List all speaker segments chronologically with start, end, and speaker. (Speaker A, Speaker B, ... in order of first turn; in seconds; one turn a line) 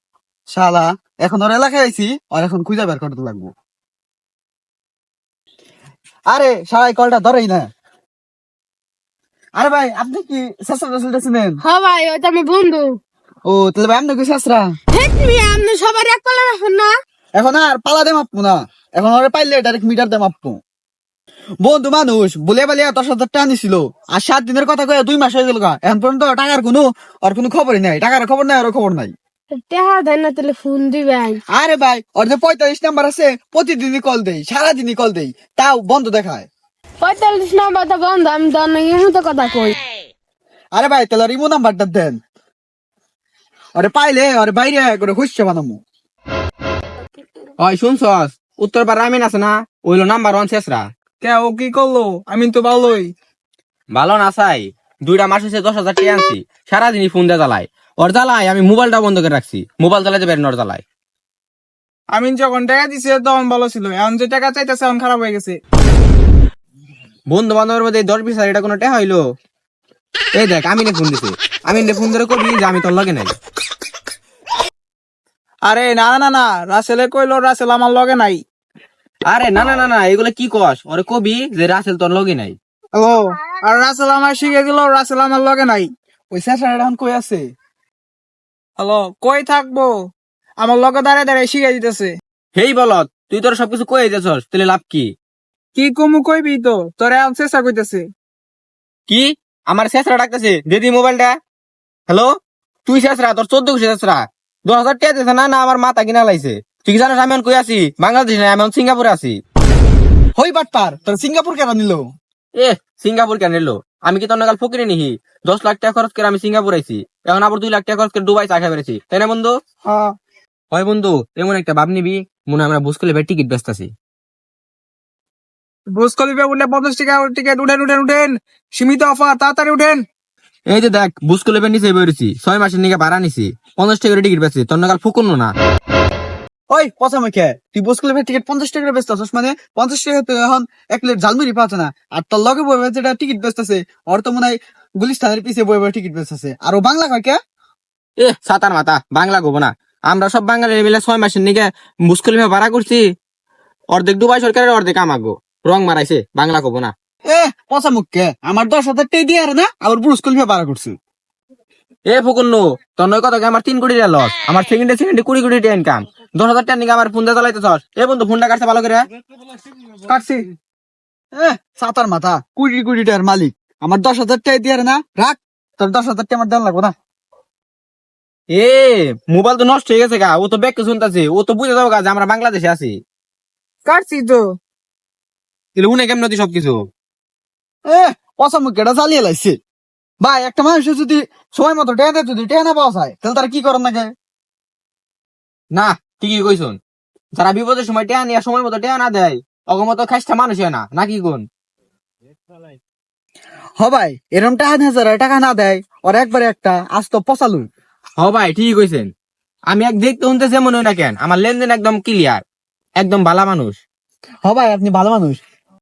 Speaker A: 0.5-3.5
Speaker A: 6.3-7.7
Speaker A: 9.6-11.6
Speaker B: 11.6-13.0
Speaker A: 13.5-14.7
Speaker B: 14.9-16.9
Speaker A: 17.4-20.6
Speaker A: 21.6-29.1
Speaker B: 29.6-31.4
Speaker A: 31.5-36.5
Speaker B: 37.0-39.8
Speaker A: 40.7-42.2
Speaker A: 43.8-45.8
Speaker C: 47.6-50.9
Speaker D: 51.2-53.1
Speaker C: 53.9-60.8
Speaker D: 62.1-65.6
Speaker C: 67.3-69.2
Speaker C: 70.3-73.3
Speaker D: 75.7-78.4
Speaker C: 79.3-82.6
Speaker D: 83.0-85.9
Speaker A: 86.3-87.5
Speaker D: 88.8-90.0
Speaker D: 90.6-92.2
Speaker C: 92.5-95.1
Speaker D: 95.8-98.1
Speaker C: 99.1-101.3
Speaker C: 102.9-109.4
Speaker A: 110.4-112.1
Speaker C: 112.6-119.5
Speaker C: 120.7-123.9
Speaker D: 125.9-130.0
Speaker C: 130.7-135.5
Speaker A: 136.7-147.4
Speaker C: 148.2-153.0
Speaker C: 153.9-156.9
Speaker A: 157.3-160.9
Speaker C: 162.1-169.1
Speaker D: 170.1-170.4
Speaker A: 171.3-176.9
Speaker C: 178.5-183.0
Speaker D: 183.9-184.5
Speaker C: 185.8-186.8
Speaker A: 187.9-189.6
Speaker A: 190.2-194.1
Speaker C: 195.8-196.8
Speaker C: 197.4-201.4
Speaker A: 203.8-207.7
Speaker C: 208.2-209.1
Speaker C: 209.7-212.4
Speaker C: 213.0-213.8
Speaker A: 214.4-215.4